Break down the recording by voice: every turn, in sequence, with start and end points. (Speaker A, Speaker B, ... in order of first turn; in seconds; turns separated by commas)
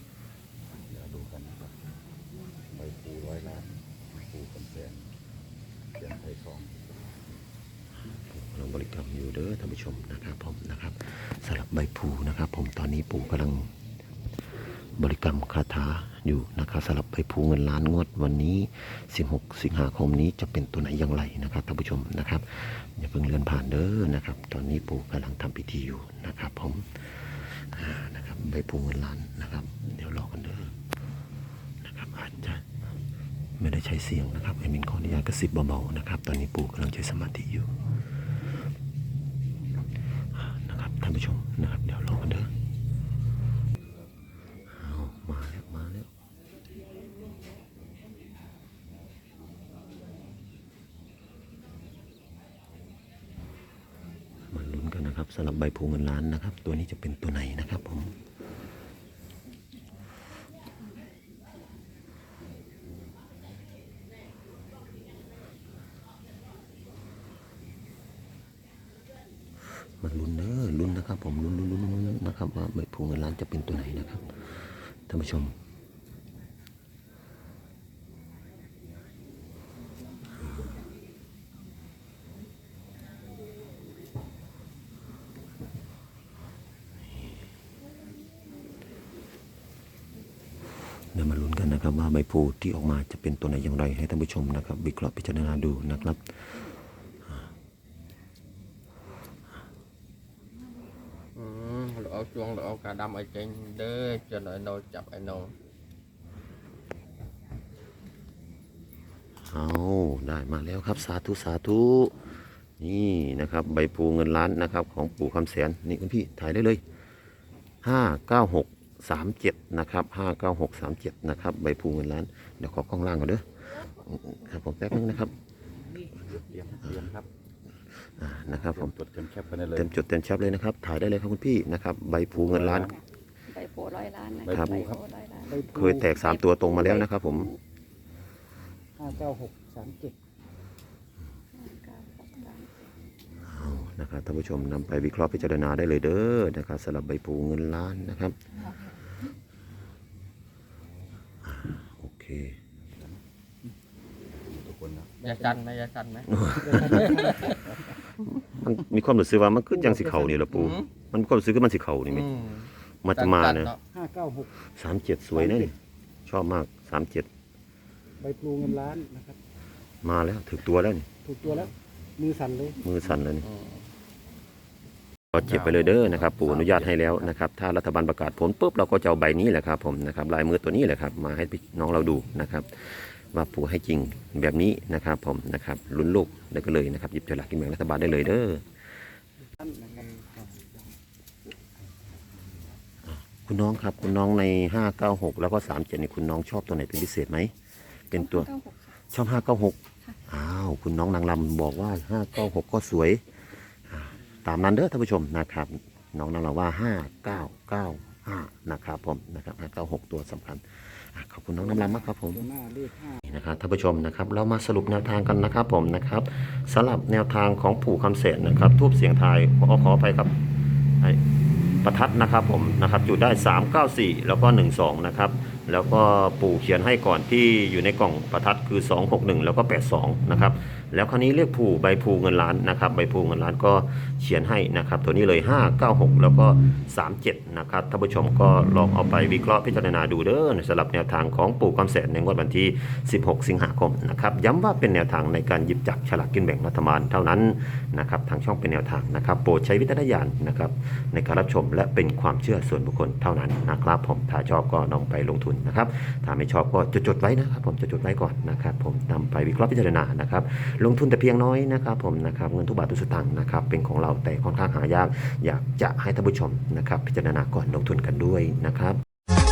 Speaker A: 0.9-1.7, Speaker A: 2.7-5.1, Speaker A: 6.0-6.9, Speaker B: 8.3-13.7, Speaker B: 15.0-30.7, Speaker B: 31.8-32.8, Speaker B: 33.6-37.7, Speaker B: 40.4-42.5, Speaker B: 44.7-46.1, Speaker B: 54.5-58.1, Speaker B: 70.0-74.5, Speaker B: 75.1-75.5, Speaker B: 91.1-96.2, Speaker C: 101.4-105.5, Speaker B: 109.5-112.2, Speaker B: 112.8-116.8, Speaker B: 117.8-125.3, Speaker A: 126.2-127.3, Speaker B: 128.2-128.9, Speaker A: 128.7-129.9, Speaker B: 129.8-133.0, Speaker A: 132.3-132.9, Speaker D: 133.5-137.6, Speaker A: 134.5-135.0, Speaker B: 134.5-134.9, Speaker E: 135.5-136.2, Speaker B: 135.7-137.5, Speaker E: 139.0-140.2, Speaker D: 141.6-142.7, Speaker B: 143.5-148.4, Speaker B: 151.5-152.6, Speaker A: 154.4-155.1, Speaker C: 155.2-157.6, Speaker E: 155.2-155.6, Speaker B: 156.4-157.1, Speaker E: 156.6-157.5, Speaker B: 158.2-162.3, Speaker E: 159.9-160.3, Speaker C: 160.5-160.9, Speaker C: 162.1-163.8, Speaker B: 163.0-163.7, Speaker E: 163.9-164.5, Speaker B: 164.8-165.7, Speaker E: 165.3-165.7, Speaker B: 166.3-167.3, Speaker E: 168.2-169.4, Speaker B: 170.0-171.1, Speaker E: 171.2-172.8, Speaker C: 171.4-171.7, Speaker B: 172.8-173.5, Speaker C: 173.4-173.8, Speaker C: 175.3-175.7, Speaker B: 175.3-188.6, Speaker A: 175.7-177.2, Speaker E: 189.6-190.3, Speaker B: 193.1-197.5, Speaker B: 198.1-198.5, Speaker D: 198.1-198.9, Speaker B: 199.1-203.2, Speaker B: 203.9-212.5, Speaker E: 211.6-213.2, Speaker B: 213.2-220.4, Speaker B: 221.8-269.0